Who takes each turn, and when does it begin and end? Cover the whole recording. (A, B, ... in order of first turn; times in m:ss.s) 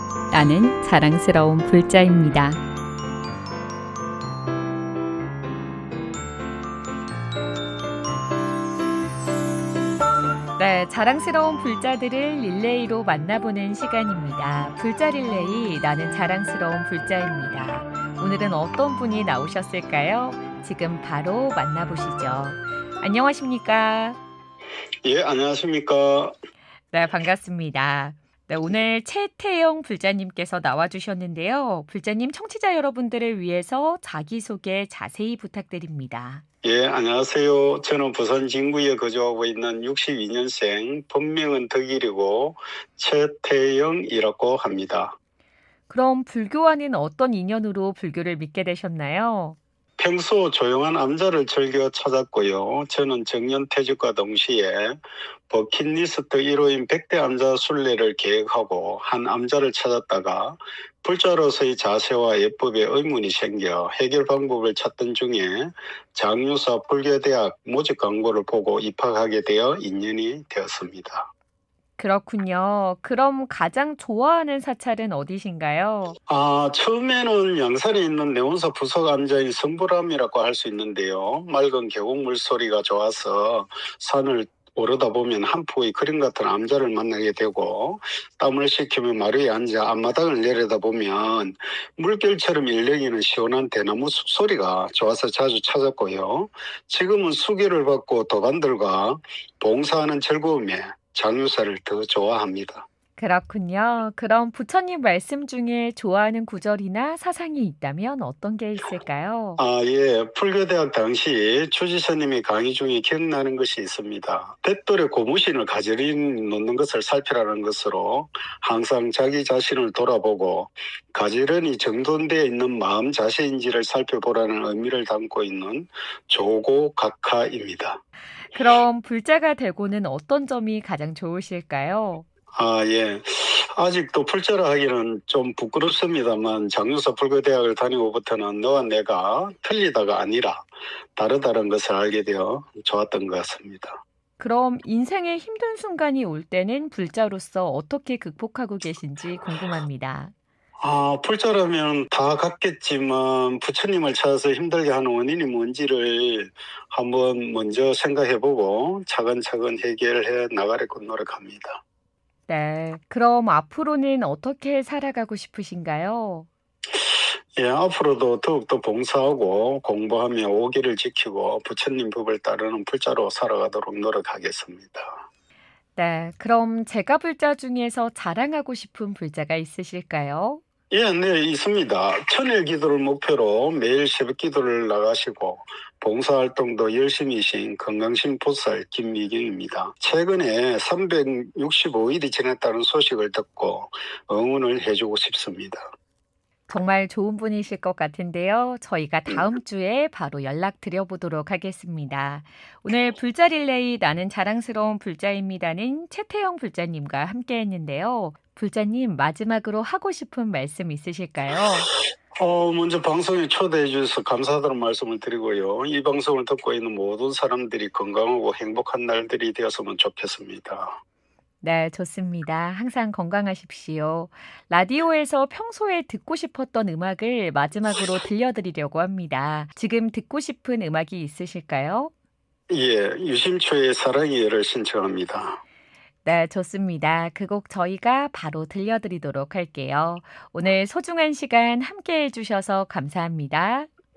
0:00.3-0:02.6 A
0:10.6-0:24.2 A
0:25.0-0:26.3 B
0:26.9-0:36.4 A
0:36.6-0:45.2 B
0:45.9-0:49.6 A
0:50.0-0:55.0 B
0:55.5-1:11.3 B
1:12.0-1:16.2 A
1:16.3-1:42.9 B
1:43.2-1:49.6 A
1:49.6-2:08.0 B
2:08.5-2:12.3 A
2:12.5-2:24.0 B
2:24.4-2:30.3 A
2:30.8-2:41.8 B
2:42.5-2:46.5 A
2:47.0-2:55.2 B
2:56.0-3:00.6 A
3:00.9-3:15.9 B
3:16.7-3:31.9 A
3:32.4-3:41.0 B
3:41.6-3:52.1 A
3:52.7-3:55.6 B
3:56.2-4:03.9 A